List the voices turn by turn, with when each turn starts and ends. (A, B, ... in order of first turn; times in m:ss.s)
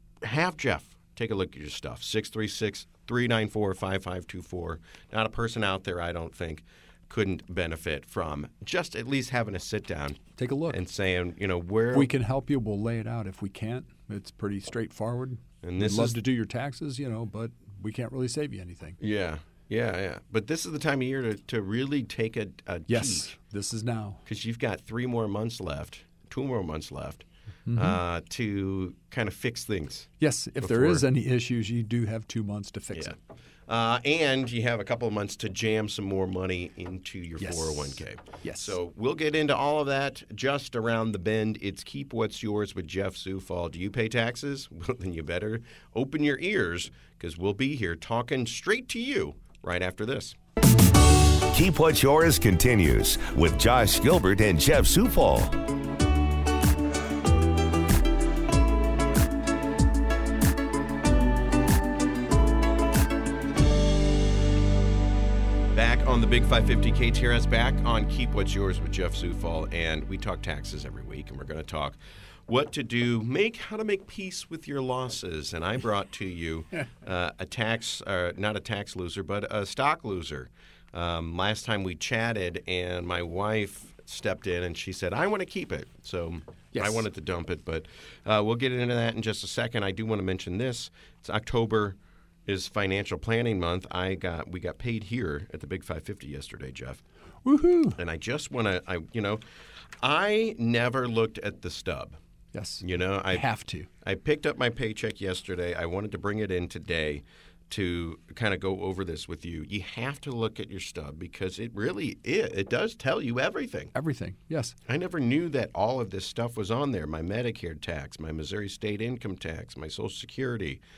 0:00.2-0:12.1 A
0:10.4-0:10.8 B
0:11.9-0:19.0 B
0:15.6-0:16.2 A
0:19.0-0:23.3 A
0:22.9-0:24.2 B
0:24.2-0:30.1 A
0:27.6-0:28.0 B
0:30.2-0:33.2 B
0:30.6-0:31.0 A
0:32.9-0:50.4 A
0:37.4-0:38.8 B
0:51.5-0:55.5 C
1:05.7-1:37.0 A
1:26.7-1:27.0 B
1:37.4-1:38.0 B
1:38.0-1:39.4 A
1:40.0-1:42.2 A
1:42.5-1:43.9 B
1:42.8-1:43.5 A
1:44.0-1:53.9 A
1:53.9-1:54.8 B
1:54.8-2:00.8 A